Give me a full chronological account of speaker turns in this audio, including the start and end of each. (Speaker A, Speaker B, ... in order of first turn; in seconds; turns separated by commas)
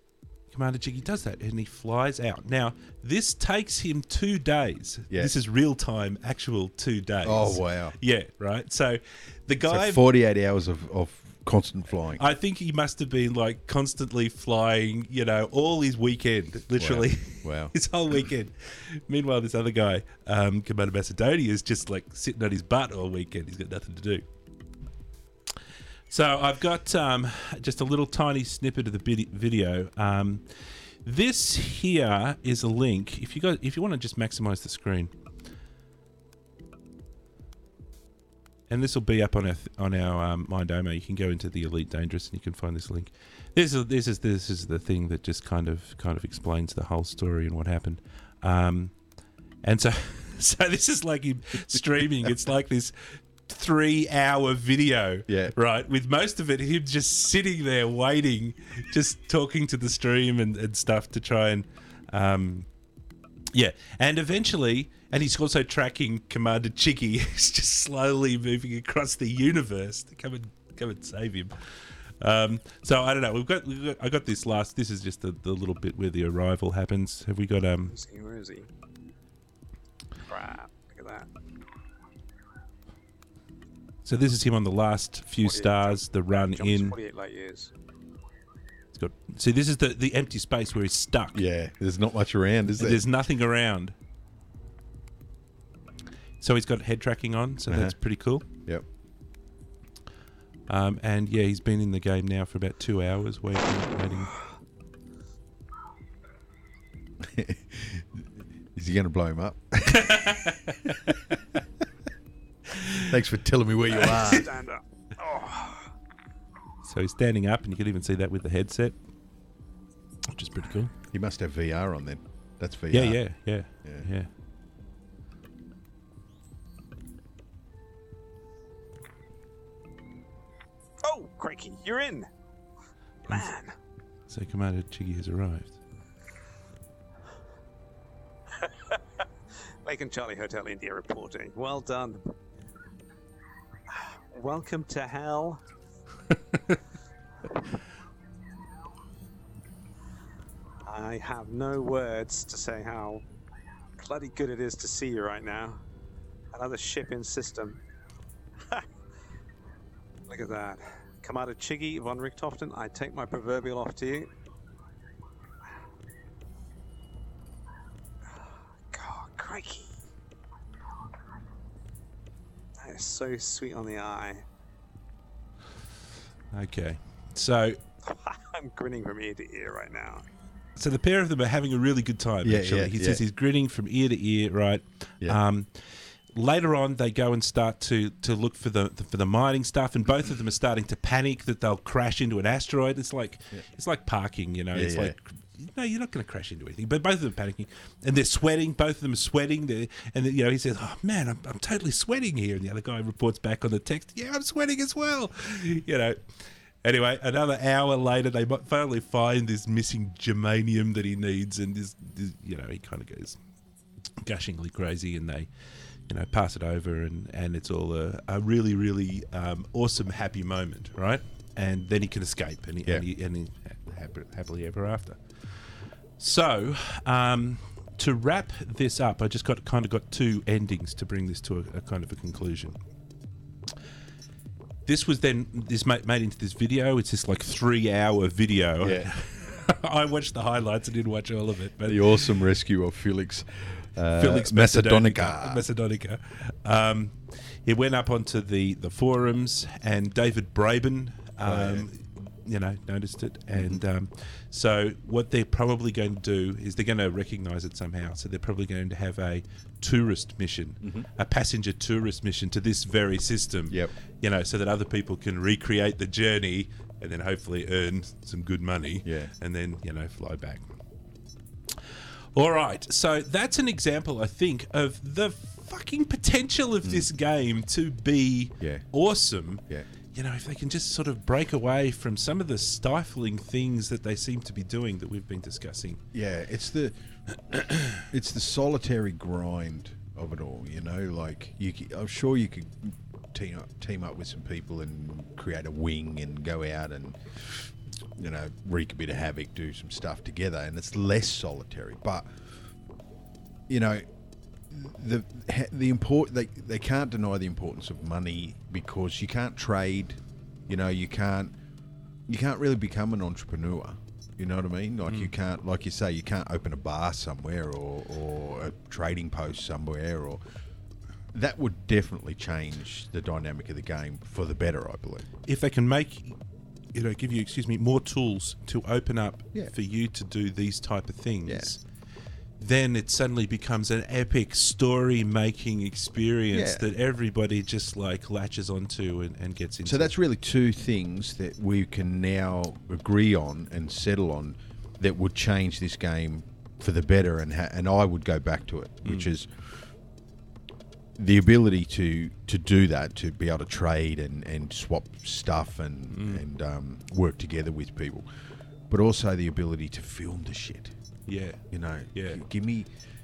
Speaker A: 0.5-10.0, Speaker B: 7.2-8.0, Speaker B: 9.6-12.3, Speaker A: 12.2-24.2, Speaker B: 16.8-17.7, Speaker A: 26.1-30.4, Speaker A: 31.0-35.1, Speaker A: 38.7-48.9, Speaker A: 49.6-62.7, Speaker B: 55.3-55.5, Speaker A: 63.5-77.9, Speaker C: 77.8-78.7, Speaker C: 80.3-81.3, Speaker A: 84.0-87.0, Speaker C: 85.4-87.7, Speaker A: 88.9-91.4, Speaker B: 91.3-93.0, Speaker A: 92.8-93.9, Speaker A: 96.4-98.5, Speaker B: 97.7-98.0, Speaker B: 98.5-98.8, Speaker A: 100.7-104.3, Speaker B: 107.2-110.3, Speaker A: 109.9-111.4, Speaker A: 112.7-113.1, Speaker B: 113.0-114.5, Speaker A: 113.9-114.4, Speaker C: 114.0-115.8, Speaker A: 116.8-119.0, Speaker A: 120.3-120.9, Speaker B: 121.1-123.2, Speaker A: 122.9-124.3, Speaker C: 131.0-132.3, Speaker C: 133.3-133.7, Speaker A: 134.3-135.8, Speaker C: 138.6-139.0, Speaker C: 139.8-142.3, Speaker C: 143.9-145.6, Speaker C: 150.8-153.2, Speaker C: 154.0-155.8, Speaker C: 156.5-157.8, Speaker C: 160.3-164.3, Speaker C: 168.9-169.9, Speaker C: 172.8-174.4, Speaker A: 176.5-177.8, Speaker C: 178.0-180.2, Speaker A: 180.8-206.2, Speaker B: 182.4-183.2, Speaker B: 194.7-195.2, Speaker A: 206.8-213.4, Speaker A: 214.2-215.5, Speaker A: 216.1-225.2, Speaker A: 226.2-232.8, Speaker A: 234.8-242.4, Speaker B: 238.8-239.1, Speaker B: 241.8-245.6, Speaker A: 244.1-270.6, Speaker B: 251.4-251.8, Speaker B: 253.5-253.8, Speaker B: 260.8-261.1, Speaker B: 269.0-269.3, Speaker A: 272.3-286.0, Speaker B: 286.1-286.9, Speaker B: 287.5-302.2, Speaker A: 287.7-288.0, Speaker B: 303.7-304.1, Speaker B: 304.7-311.5, Speaker B: 312.3-320.4, Speaker B: 321.3-325.2, Speaker A: 325.4-326.4, Speaker A: 326.9-331.8, Speaker B: 331.4-331.7, Speaker A: 332.6-340.1, Speaker B: 336.5-336.9, Speaker B: 339.8-349.6, Speaker A: 349.0-349.3, Speaker B: 351.1-358.3, Speaker A: 356.1-356.4, Speaker B: 358.9-360.9, Speaker A: 361.3-361.6, Speaker B: 361.7-362.9, Speaker A: 362.1-362.4